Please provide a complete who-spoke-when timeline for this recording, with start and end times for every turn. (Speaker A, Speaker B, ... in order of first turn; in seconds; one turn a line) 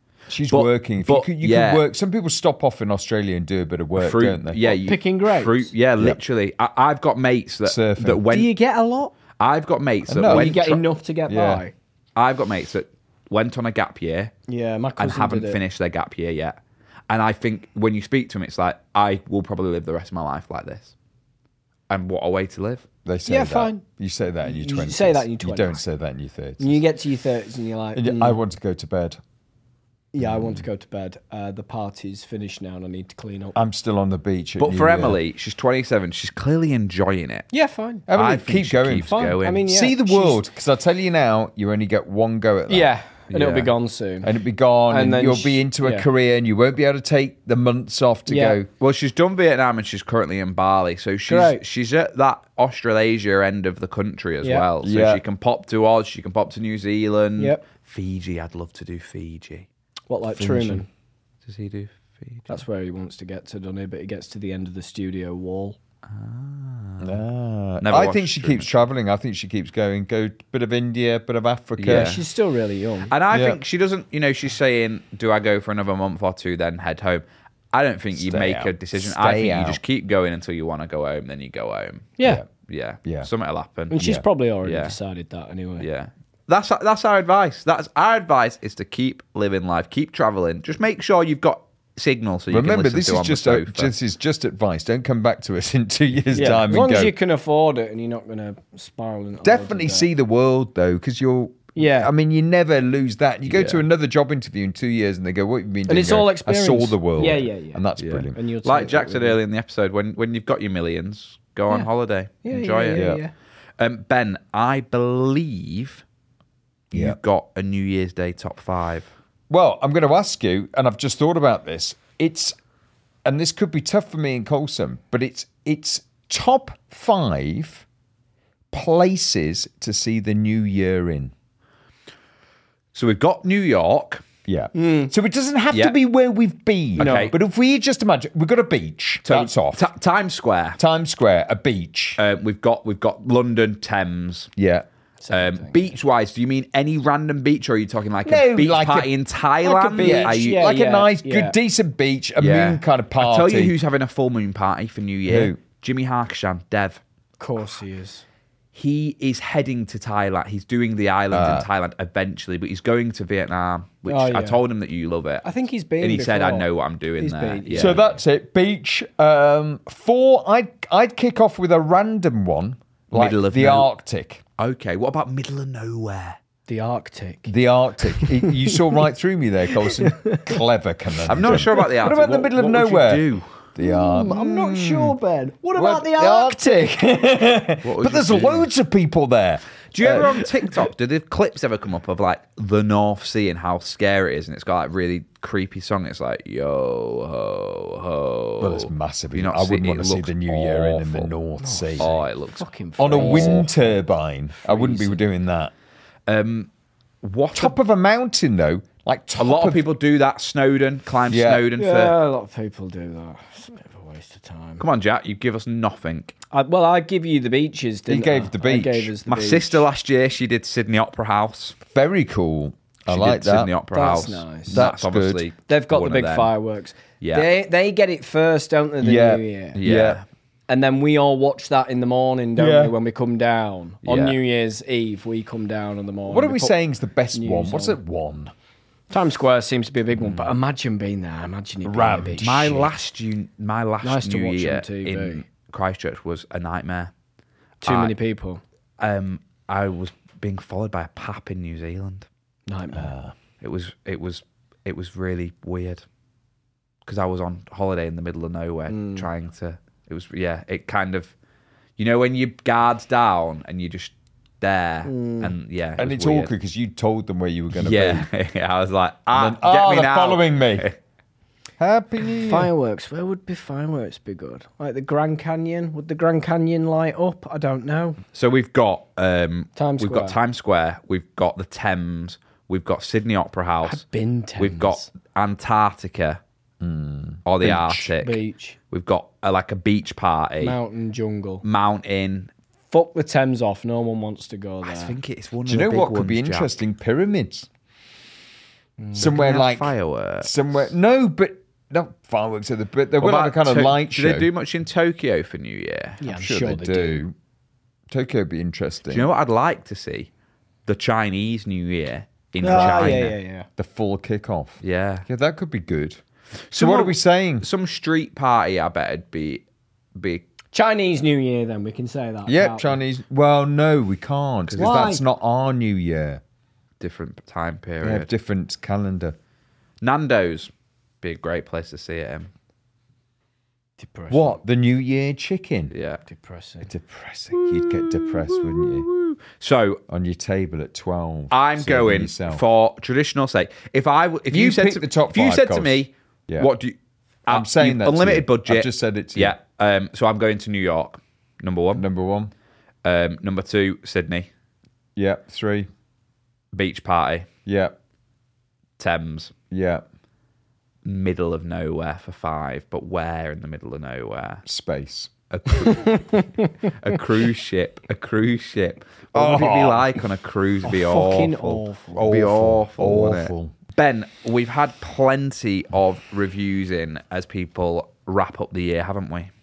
Speaker A: 0.3-4.6
Speaker B: 0.5-1.8
Speaker B: 4.0-8.5
Speaker C: 4.6-5.7
Speaker A: 7.6-8.2
Speaker C: 8.3-9.1
Speaker B: 9.4-10.8
Speaker A: 10.1-10.6
Speaker C: 10.2-11.7
Speaker A: 11.3-11.6
Speaker B: 12.2-14.3
Speaker C: 14.5-15.6
Speaker B: 15.0-16.6
Speaker B: 17.1-20.9
Speaker B: 21.9-22.8
Speaker A: 23.0-26.8
Speaker C: 23.2-23.8
Speaker C: 24.4-25.8
Speaker C: 26.6-28.4
Speaker A: 27.9-29.2
Speaker C: 30.1-33.5
Speaker A: 30.2-30.6
Speaker A: 33.5-35.2
Speaker B: 34.6-37.5
Speaker C: 37.5-38.0
Speaker A: 38.1-42.9
Speaker B: 38.1-39.7
Speaker C: 39.1-40.4
Speaker C: 42.7-44.3
Speaker B: 43.3-43.7
Speaker A: 44.2-48.7
Speaker C: 44.9-46.1
Speaker C: 48.3-48.6
Speaker B: 48.8-59.7
Speaker C: 51.3-51.6
Speaker A: 54.8-55.2
Speaker C: 57.4-57.6
Speaker C: 60.1-60.9
Speaker A: 60.3-60.8
Speaker B: 61.5-62.6
Speaker C: 62.5-65.8
Speaker B: 66.1-67.2
Speaker A: 67.0-72.2
Speaker B: 67.8-68.8
Speaker B: 71.8-72.2
Speaker C: 71.9-73.1
Speaker B: 73.1-84.0
Speaker A: 73.3-73.6
Speaker A: 78.2-79.8
Speaker C: 83.9-85.8
Speaker A: 84.0-84.2
Speaker B: 84.6-85.0
Speaker B: 85.8-93.9
Speaker A: 92.5-97.1
Speaker C: 96.3-100.1
Speaker A: 99.4-108.4
Speaker C: 101.8-102.1
Speaker B: 103.5-103.8
Speaker C: 105.9-109.4
Speaker B: 108.0-113.1
Speaker C: 112.4-113.3
Speaker A: 112.9-113.2
Speaker B: 113.8-116.0
Speaker A: 116.9-117.2
Speaker B: 116.9-119.1
Speaker A: 119.5-122.5
Speaker A: 123.2-127.8
Speaker A: 128.7-131.3
Speaker B: 132.9-134.2
Speaker A: 134.5-139.8
Speaker C: 134.7-135.1
Speaker B: 137.0-137.3
Speaker C: 137.0-137.3
Speaker B: 139.2-140.8
Speaker A: 140.8-142.2
Speaker B: 142.2-144.5
Speaker A: 144.6-144.9
Speaker C: 145.2-145.9
Speaker B: 145.3-150.7
Speaker A: 148.2-149.1
Speaker A: 149.6-153.7
Speaker C: 149.9-151.6
Speaker B: 152.4-157.0
Speaker A: 155.2-155.6
Speaker C: 157.4-158.2
Speaker B: 158.7-165.5
Speaker A: 161.3-161.7
Speaker C: 164.1-164.6
Speaker C: 165.4-166.7
Speaker B: 166.0-168.0
Speaker C: 167.2-168.0
Speaker A: 167.7-174.4
Speaker B: 173.1-173.9
Speaker B: 174.6-176.4
Speaker C: 176.7-177.5
Speaker A: 177.5-185.2
Speaker C: 178.1-178.8
Speaker C: 179.8-180.6
Speaker B: 181.3-183.5
Speaker C: 181.5-181.8
Speaker C: 183.8-186.9
Speaker A: 185.7-190.4
Speaker B: 187.8-188.7
Speaker B: 189.9-201.3
Speaker A: 198.6-202.1
Speaker C: 201.6-204.0
Speaker B: 202.0-203.7
Speaker A: 203.0-205.7
Speaker C: 204.6-205.2
Speaker B: 206.3-206.7
Speaker B: 207.2-207.8
Speaker A: 207.5-209.8
Speaker B: 209.4-212.2
Speaker A: 211.3-211.6
Speaker C: 211.8-214.8
Speaker B: 214.8-216.3
Speaker C: 216.5-219.8
Speaker A: 218.1-219.1
Speaker B: 219.3-221.8
Speaker A: 221.8-223.7
Speaker B: 223.1-226.5
Speaker C: 223.9-224.8
Speaker A: 224.7-225.4
Speaker C: 225.7-229.8
Speaker B: 227.2-227.5
Speaker A: 229.0-230.2
Speaker B: 229.8-230.2
Speaker C: 230.7-236.7
Speaker A: 232.6-232.9
Speaker B: 234.0-234.4
Speaker A: 236.3-238.5
Speaker C: 237.3-238.0
Speaker C: 239.1-242.8
Speaker B: 240.2-240.5
Speaker A: 241.8-242.9
Speaker B: 242.4-247.1
Speaker C: 244.0-245.4
Speaker C: 247.8-248.6
Speaker B: 247.8-248.1
Speaker B: 249.0-252.3
Speaker C: 252.7-253.1
Speaker A: 252.9-253.3
Speaker B: 253.6-256.0
Speaker B: 257.1-261.3
Speaker C: 258.9-259.3
Speaker B: 262.0-266.5
Speaker C: 265.0-265.5
Speaker A: 266.0-268.3
Speaker B: 267.7-271.0
Speaker A: 269.3-270.9
Speaker A: 271.8-272.7
Speaker C: 272.4-278.2
Speaker B: 278.3-284.0
Speaker C: 279.8-280.4
Speaker C: 283.8-285.1
Speaker B: 284.6-286.4
Speaker A: 286.8-288.1
Speaker B: 287.4-290.8
Speaker C: 288.2-288.8
Speaker C: 290.6-291.6
Speaker B: 291.6-292.5
Speaker C: 292.9-295.1
Speaker B: 294.8-296.7
Speaker A: 295.6-297.7
Speaker C: 299.0-299.4
Speaker A: 299.1-304.5
Speaker B: 299.1-300.9
Speaker B: 303.2-306.2
Speaker C: 306.2-307.2
Speaker A: 306.2-307.3
Speaker A: 308.1-309.3
Speaker B: 309.1-310.3
Speaker B: 310.9-313.4
Speaker C: 312.6-313.7
Speaker A: 312.6-316.2
Speaker B: 314.8-315.2
Speaker B: 316.7-319.6
Speaker A: 316.7-317.6
Speaker B: 320.1-320.4
Speaker C: 320.7-323.0
Speaker A: 322.4-326.4
Speaker B: 324.7-325.1
Speaker C: 324.8-325.2
Speaker B: 327.0-328.3
Speaker A: 328.0-329.4
Speaker B: 330.0-330.7
Speaker B: 331.2-332.5
Speaker C: 334.0-334.6
Speaker A: 334.3-335.9
Speaker B: 335.9-336.2
Speaker C: 336.2-336.9
Speaker A: 336.8-339.1
Speaker B: 337.5-340.0
Speaker A: 340.1-342.6
Speaker B: 341.5-346.9
Speaker A: 344.5-346.7
Speaker B: 347.5-352.0
Speaker A: 347.5-349.6
Speaker A: 351.9-352.5
Speaker B: 353.0-354.5
Speaker A: 355.1-355.9
Speaker B: 356.7-357.5
Speaker A: 357.6-357.9
Speaker B: 359.0-359.5
Speaker A: 359.7-360.0
Speaker B: 361.0-364.6
Speaker A: 364.6-365.3
Speaker B: 365.5-379.5
Speaker C: 365.9-366.7
Speaker A: 369.3-370.2
Speaker C: 370.8-372.3
Speaker A: 372.1-373.7